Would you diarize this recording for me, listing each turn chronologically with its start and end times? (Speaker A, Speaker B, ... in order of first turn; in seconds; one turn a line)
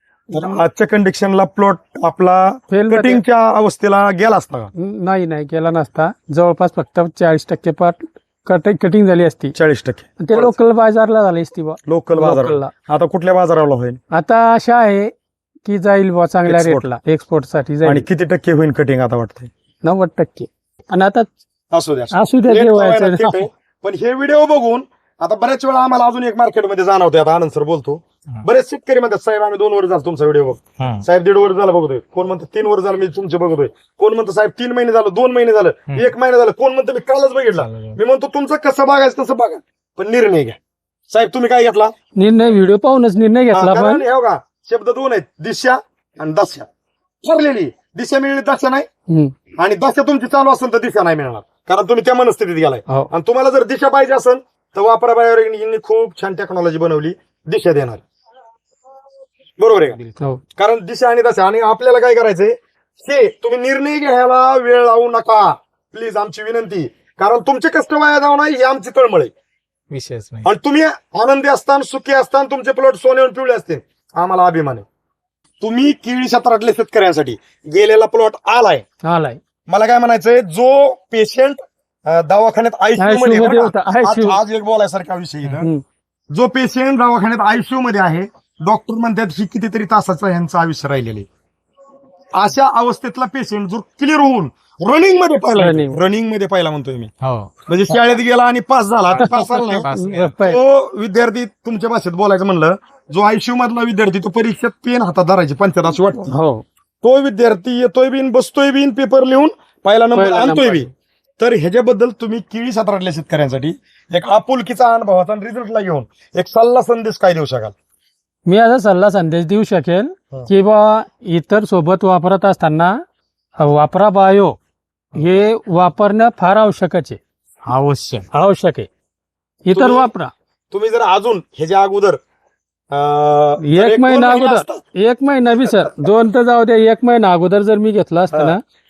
Speaker A: 0.3-0.6
Speaker B: 0.3-4.7
Speaker A: 2.7-3.2
Speaker A: 4.8-9.5
Speaker B: 9.5-10.5
Speaker A: 10.2-12.7
Speaker B: 11.9-14.0
Speaker A: 14.1-15.1
Speaker A: 15.6-18.1
Speaker B: 16.4-16.9
Speaker B: 17.8-19.5
Speaker A: 19.8-21.3
Speaker B: 21.7-40.6
Speaker A: 22.1-23.4
Speaker C: 30.8-31.0
Speaker C: 37.6-38.0
Speaker B: 41.1-41.9
Speaker A: 42.1-44.0
Speaker B: 43.5-46.7
Speaker B: 47.2-48.9
Speaker A: 49.1-49.3
Speaker B: 49.6-58.0
Speaker B: 59.6-60.0
Speaker B: 60.6-69.3
Speaker C: 69.9-70.5
Speaker B: 70.4-74.8
Speaker B: 75.6-78.8
Speaker A: 79.0-79.4
Speaker B: 79.7-85.7
Speaker A: 83.0-84.4
Speaker B: 86.3-91.3
Speaker B: 92.3-97.1
Speaker A: 95.5-96.0
Speaker C: 97.2-97.5
Speaker B: 97.7-106.3
Speaker C: 99.1-100.3
Speaker A: 99.2-100.6
Speaker A: 106.3-106.6
Speaker B: 107.0-117.7
Speaker A: 110.1-110.9
Speaker A: 118.5-123.0
Speaker A: 123.6-124.5
Speaker A: 125.1-127.2
Speaker C: 127.7-128.3
Speaker A: 128.3-128.9
Speaker A: 129.7-130.3
Speaker B: 129.7-130.1
Speaker B: 130.7-132.2
Speaker B: 132.9-134.8
Speaker A: 133.6-138.6
Speaker B: 135.7-136.1
Speaker B: 138.3-138.6